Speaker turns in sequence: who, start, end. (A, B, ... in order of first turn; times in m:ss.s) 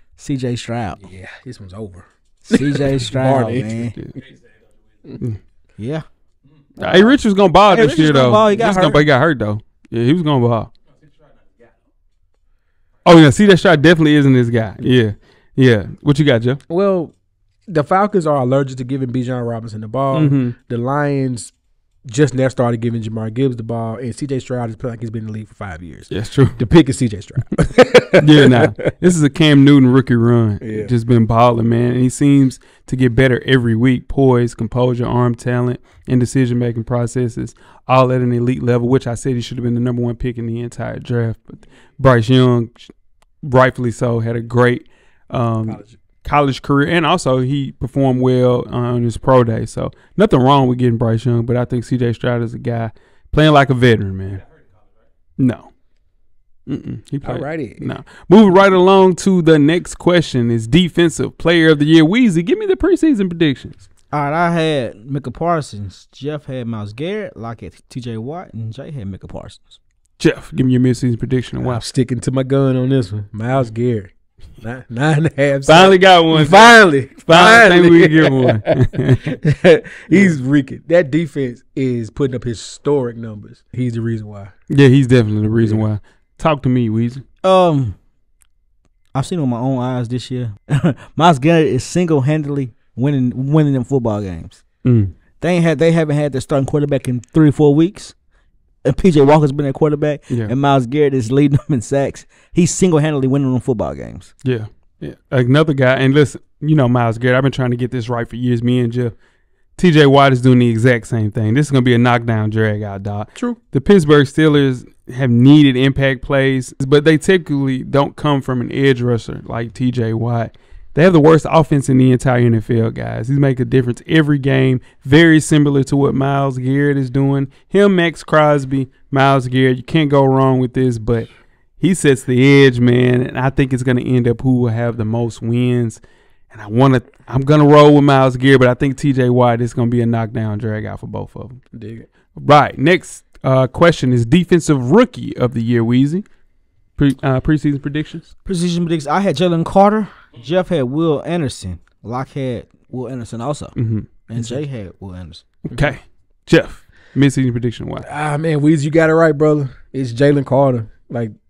0:00.2-0:01.0 A
0:01.0-0:04.0 B
0:02.4-0:04.0 A
0:05.8-0:06.0 A
0:06.8-0:10.7 C
0:06.8-0:07.2 B
0:07.7-0:09.0 A
0:13.0-0:16.6 C
0:16.7-0:17.1 B
0:17.7-0:21.5 B
0:20.1-0:20.6 C
0:22.1-0:28.9 B
0:26.1-0:26.6 C
0:28.2-0:42.9 C
0:30.6-0:30.9 B
0:43.4-0:54.4 C
0:45.7-0:46.0 B
0:55.4-0:55.7 C
0:56.7-1:03.9 C
0:57.2-0:57.8 B
1:04.1-1:09.8 A
1:10.2-1:11.8 C
1:11.6-1:18.7 B
1:15.7-1:19.3 C
1:19.3-1:24.5 B
1:24.7-1:27.2 C
1:27.4-1:28.0 A
1:29.1-1:34.6 A
1:34.8-1:35.2 C
1:35.4-1:38.2 A
1:38.8-1:44.3 A
1:44.4-1:49.1 C
1:49.8-2:16.0 C
2:16.5-2:21.6 C
2:21.7-2:22.1 B
2:22.4-2:26.3 C
2:27.0-2:28.3 C
2:28.4-2:33.8 A
2:33.8-2:34.1 C
2:34.3-2:35.4 A
2:35.7-2:38.1 C
2:35.7-2:36.0 B
2:38.0-2:41.3 B